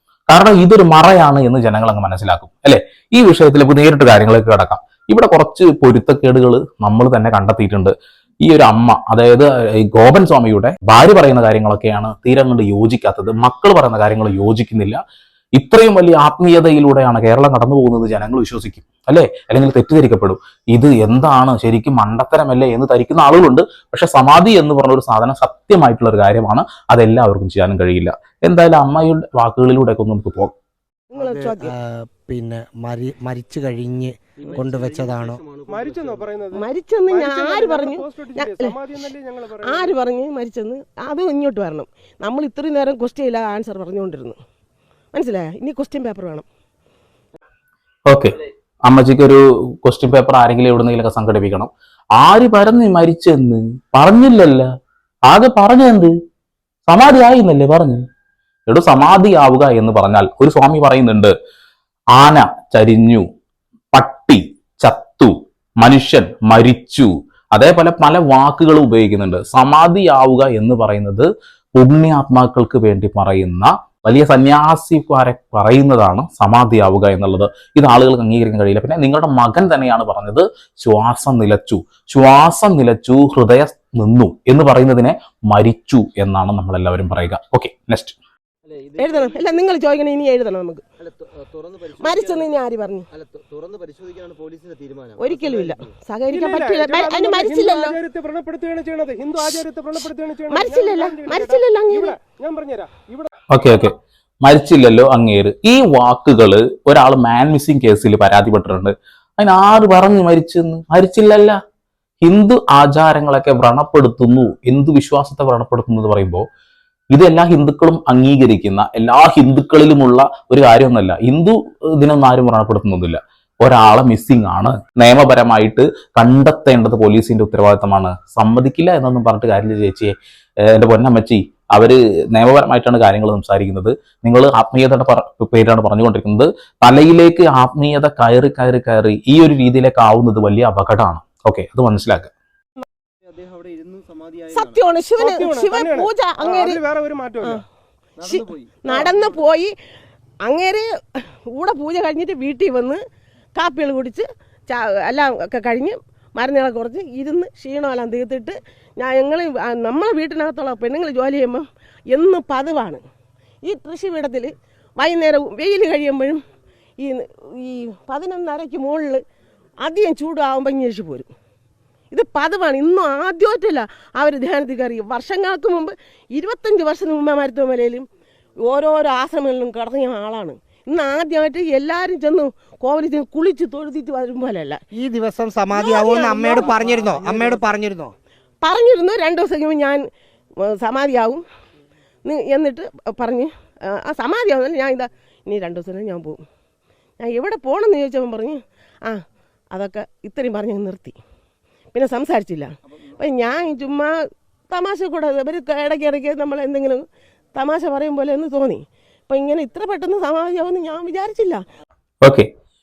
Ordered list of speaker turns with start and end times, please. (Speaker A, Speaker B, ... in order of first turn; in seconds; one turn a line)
Speaker A: 0.3-15.0
Speaker A: 15.6-30.5
Speaker B: 31.1-31.7
Speaker C: 31.1-35.4
Speaker D: 34.4-36.3
Speaker E: 35.7-40.0
Speaker B: 36.5-39.0
Speaker B: 39.6-44.4
Speaker B: 45.1-46.5
Speaker A: 48.1-54.7
Speaker A: 55.3-56.1
Speaker A: 56.9-58.0
Speaker A: 58.7-61.4
Speaker A: 62.1-63.3
Speaker A: 63.9-88.2
Speaker D: 88.7-89.7
Speaker B: 89.0-90.8
Speaker D: 91.0-92.5
Speaker B: 92.0-93.1
Speaker D: 93.1-95.9
Speaker B: 95.2-98.0
Speaker E: 96.3-103.3
Speaker B: 99.4-102.2
Speaker A: 103.5-111.6
Speaker A: 112.2-116.5
Speaker A: 117.1-142.3
Speaker D: 143.2-144.8
Speaker B: 144.5-146.8
Speaker E: 145.2-147.6
Speaker D: 148.2-149.2
Speaker B: 148.2-149.7
Speaker B: 150.4-153.0
Speaker B: 153.6-163.0
Speaker B: 163.6-166.4
Speaker B: 167.0-169.2
Speaker B: 169.8-171.3
Speaker B: 172.1-178.1
Speaker B: 178.7-184.8
Speaker C: 184.9-188.1
Speaker B: 185.7-187.3
Speaker D: 186.2-187.0
Speaker B: 188.6-190.0
Speaker B: 190.6-191.4
Speaker B: 192.2-196.4
Speaker B: 197.2-201.2
Speaker B: 201.9-204.1
Speaker B: 204.7-207.0
Speaker B: 207.6-211.6
Speaker A: 212.2-212.5